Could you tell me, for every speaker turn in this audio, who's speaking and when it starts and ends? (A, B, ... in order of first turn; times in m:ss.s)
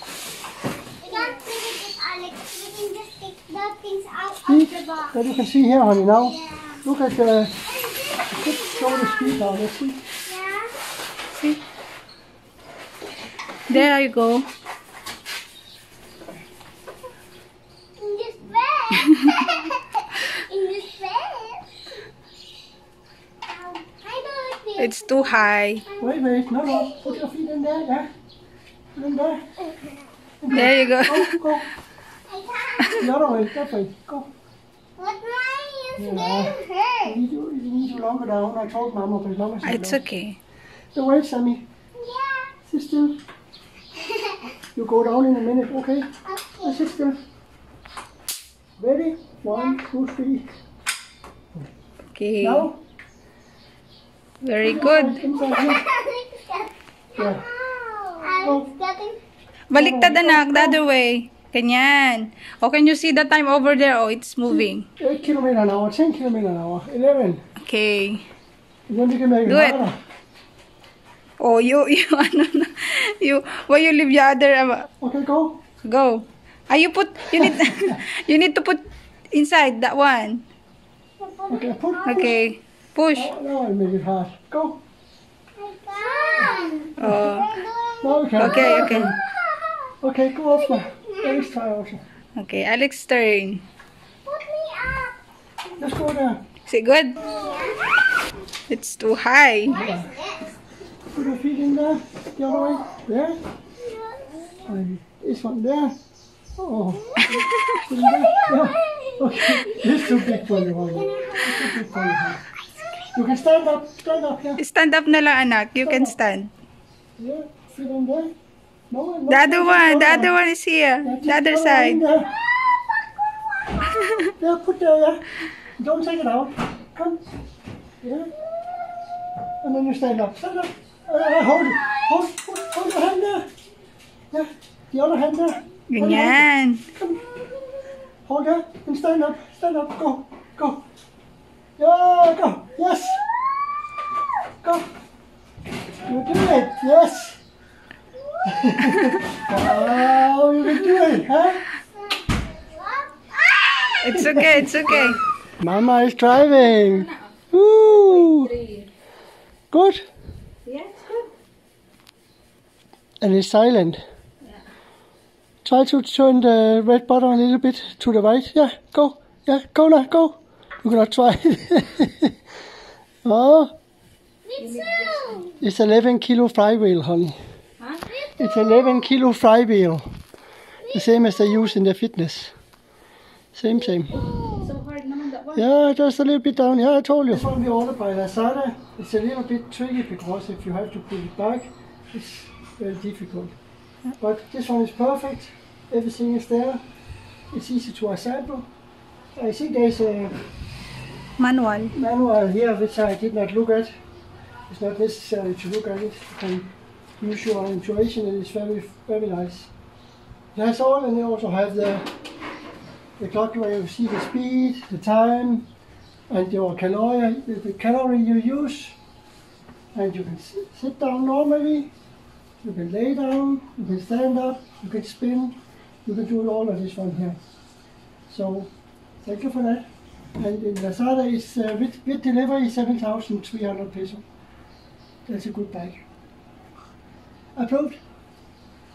0:01.0-0:05.2 A
0:04.4-0:07.6 B
0:06.2-0:06.8 A
0:07.7-0:09.5 A
0:08.3-0:10.0 B
0:10.2-0:10.8 A
0:11.3-0:11.6 C
0:13.7-0:14.5 C
0:18.0-0:21.7 A
0:23.4-0:27.2 A
0:24.8-0:25.8 C
0:26.0-0:28.1 B
0:28.9-0:29.5 B
0:30.4-0:31.7 B
0:30.5-0:31.4 C
0:32.3-0:33.1 A
0:32.9-0:34.3 B
0:35.0-0:37.2 A
0:36.0-0:40.0 B
0:39.6-0:40.4 C
0:40.9-0:41.7 B
0:42.0-0:42.5 A
0:42.7-0:43.2 B
0:44.0-0:44.5 A
0:44.8-0:46.1 B
0:46.2-0:47.0 A
0:46.6-0:47.2 B
0:48.8-0:50.5 B
0:49.5-0:49.8 A
0:52.1-0:52.7 C
0:52.4-0:52.8 B
0:54.4-0:55.2 C
0:54.6-0:55.8 B
0:55.3-0:59.2 A
0:57.1-0:57.4 B
0:58.4-0:58.7 B
0:59.7-1:04.8 C
0:59.7-1:00.8 B
1:04.5-1:07.4 B
1:07.6-1:08.2 C
1:08.9-1:10.0 B
1:09.4-1:09.8 C
1:11.4-1:14.9 C
1:15.0-1:15.6 B
1:15.8-1:20.4 C
1:21.2-1:22.5 A
1:21.5-1:22.4 B
1:22.0-1:23.3 C
1:23.1-1:24.8 B
1:25.6-1:30.0 A
1:26.4-1:27.0 B
1:27.0-1:27.5 C
1:28.0-1:29.2 B
1:28.4-1:29.1 C
1:30.0-1:32.0 B
1:30.7-1:31.5 A
1:32.4-1:33.6 C
1:34.2-1:35.2 A
1:35.8-1:36.4 B
1:36.7-1:37.2 C
1:37.2-1:37.9 A
1:38.7-1:39.8 C
1:39.7-1:40.6 A
1:39.7-1:40.1 B
1:41.1-1:43.4 B
1:43.8-1:44.7 A
1:44.6-1:46.0 B
1:46.6-1:52.4 B
1:48.1-1:51.9 A
1:53.1-1:54.6 B
1:54.6-1:56.5 C
1:55.8-1:56.2 B
1:57.2-1:58.3 B
1:58.9-2:00.3 B
1:59.3-2:02.0 C
2:01.0-2:02.3 B
2:02.4-2:04.2 A
2:04.1-2:04.3 C
2:04.4-2:05.2 B
2:05.8-2:07.2 B
2:08.0-2:08.3 B
2:09.6-2:13.5 B
2:14.3-2:17.2 B
2:15.9-2:16.8 C
2:18.2-2:20.8 B
2:21.8-2:23.2 B
2:24.6-2:24.9 B
2:26.1-2:27.4 B
2:28.4-2:31.7 B
2:32.5-2:33.9 A
2:33.8-2:35.2 C
2:34.1-2:38.5 B
2:37.8-2:38.9 C
2:39.7-2:40.0 B
2:40.6-2:41.3 C
2:43.2-2:44.0 B
2:45.6-2:52.3 B
2:53.2-2:53.7 B
2:54.4-2:55.6 A
2:54.6-2:55.4 C
2:55.6-2:57.4 B
2:58.1-2:59.1 A
2:58.4-3:00.1 B
3:00.8-3:01.7 A
3:00.9-3:02.5 B
3:03.5-3:04.2 B
3:03.9-3:04.7 A
3:04.3-3:05.7 C
3:05.5-3:13.5 B
3:14.2-3:16.8 B
3:17.5-3:18.7 B
3:19.4-3:20.4 B
3:21.4-3:21.9 C
3:21.9-3:23.9 B
3:24.7-3:29.7 B
3:30.5-3:32.1 B
3:33.2-3:35.7 B
3:36.3-3:39.0 B
3:39.9-3:41.9 B
3:42.6-3:47.4 B
3:48.3-3:54.2 B
3:55.3-3:56.0 B
3:57.5-3:58.0 B